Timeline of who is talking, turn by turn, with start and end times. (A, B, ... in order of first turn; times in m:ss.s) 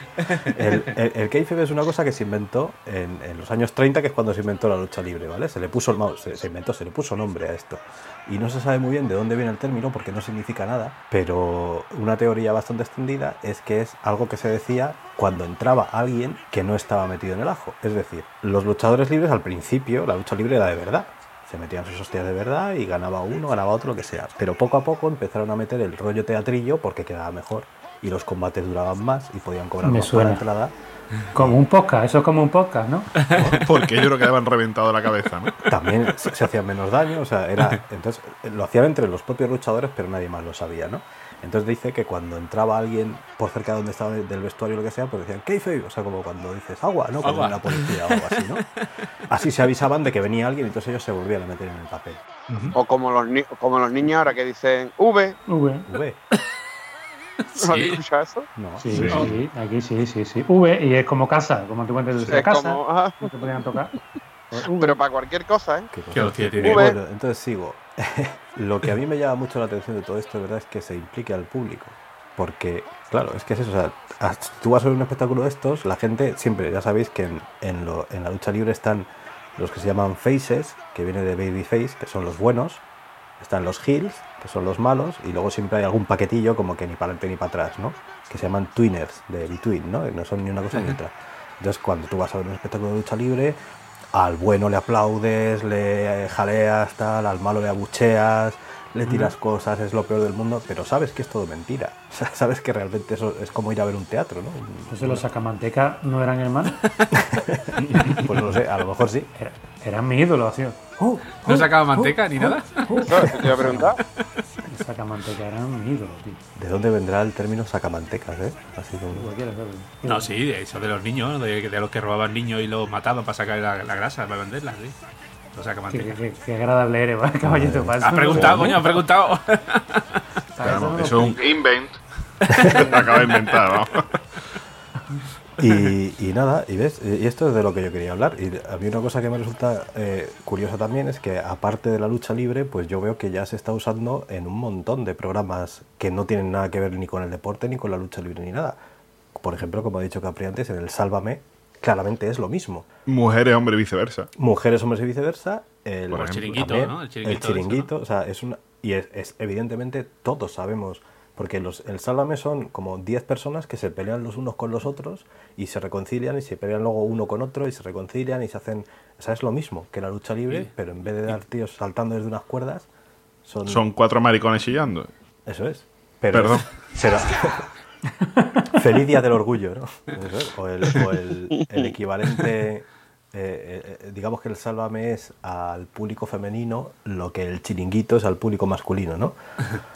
0:00.2-0:00.8 A
0:00.4-0:30.7 B
0:29.8-0:30.4 C
0:31.3-0:33.1 C
0:33.3-0:33.6 B
0:33.5-0:35.5 D
0:35.7-0:48.6 B
0:47.2-0:48.5 A
0:49.3-0:52.2 B
0:52.7-0:55.4 E
0:55.5-0:55.9 C
0:55.9-0:56.2 B
0:57.5-0:58.0 A
0:57.6-0:58.5 E
0:58.6-0:59.4 B
0:58.8-1:03.9 C
0:58.9-0:59.2 D
0:58.9-0:59.3 A
1:02.2-1:03.3 E
1:04.5-1:05.0 C
1:04.8-1:05.9 E
1:05.9-1:22.8 B
1:06.1-1:06.9 A
1:06.6-1:07.0 E
1:23.4-1:33.6 B
1:34.1-1:45.2 B
1:44.9-1:46.8 C
1:47.3-1:49.3 B
1:49.4-1:53.9 C
1:51.4-1:53.7 A
1:53.0-1:54.0 E
1:54.6-1:56.4 C
1:56.6-1:59.3 B
1:59.1-2:00.3 C
2:00.0-2:05.0 A
2:05.5-2:06.1 A
2:05.9-2:08.9 C
2:07.4-2:08.6 B
2:08.0-2:10.2 A
2:10.5-2:11.5 C
2:10.6-2:12.0 D
2:12.4-2:13.6 A
2:12.6-2:14.2 D
2:12.7-2:13.1 C
2:15.6-2:28.8 B
2:29.3-2:32.9 B
2:33.1-2:34.3 D
2:34.4-2:52.9 B
2:36.1-2:37.9 A
2:36.1-2:36.4 D
2:53.4-2:53.8 B
2:53.6-2:55.1 D
2:55.4-2:57.7 B
2:56.3-2:56.6 D
2:58.6-3:09.4 B